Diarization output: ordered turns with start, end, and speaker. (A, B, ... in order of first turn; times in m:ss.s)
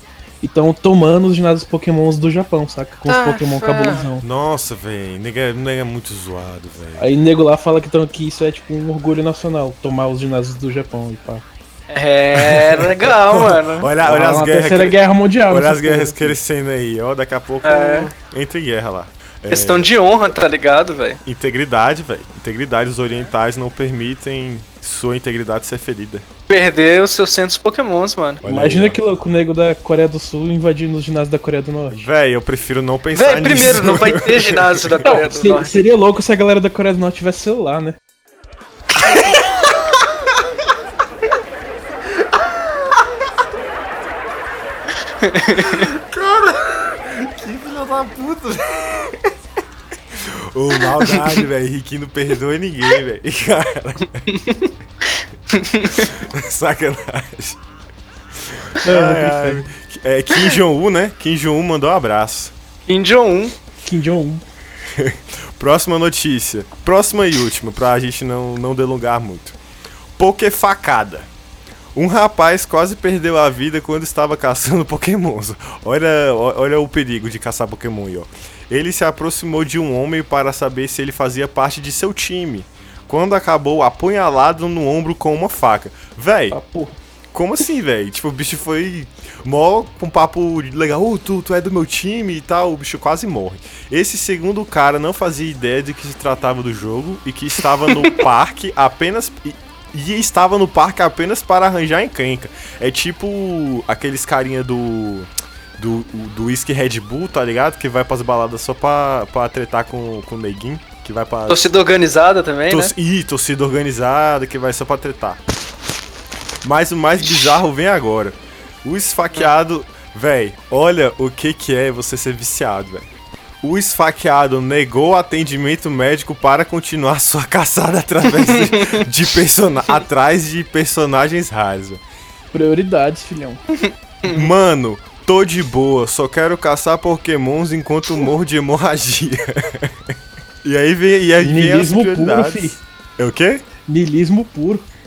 0:00.4-0:04.2 A
0:03.1-0:04.1 B
0:04.2-0:07.1 C
0:07.0-0:11.4 A
0:11.9-0:13.9 B
0:12.4-0:19.9 C
0:14.0-0:16.4 A
0:17.6-0:18.1 B
0:19.5-0:21.2 B
0:21.2-0:26.3 C
0:26.5-0:28.4 B
0:28.4-0:29.0 C
0:28.4-0:32.1 A
0:31.9-0:35.1 C
0:33.2-0:35.7 B
0:35.0-0:38.0 A
0:39.0-0:39.4 B
0:45.2-0:45.9 B
0:45.5-0:49.3 C
0:50.1-0:54.3 C
0:54.3-0:56.1 B
0:55.9-0:57.6 C
0:58.4-1:02.5 C
0:58.8-0:59.7 A
1:02.9-1:03.6 B
1:03.8-1:04.4 A
1:04.9-1:09.6 C
1:10.2-1:11.3 C
1:12.0-1:26.6 C
1:26.5-1:27.0 A
1:27.3-1:51.7 C
1:51.5-1:52.9 B
1:52.7-1:55.4 C
1:56.6-2:03.1 C
2:03.6-2:12.0 C
2:08.5-2:09.0 B
2:12.5-2:13.6 A
2:13.7-2:14.5 B
2:14.2-2:23.7 C
2:21.4-2:22.8 A
2:23.9-2:24.9 A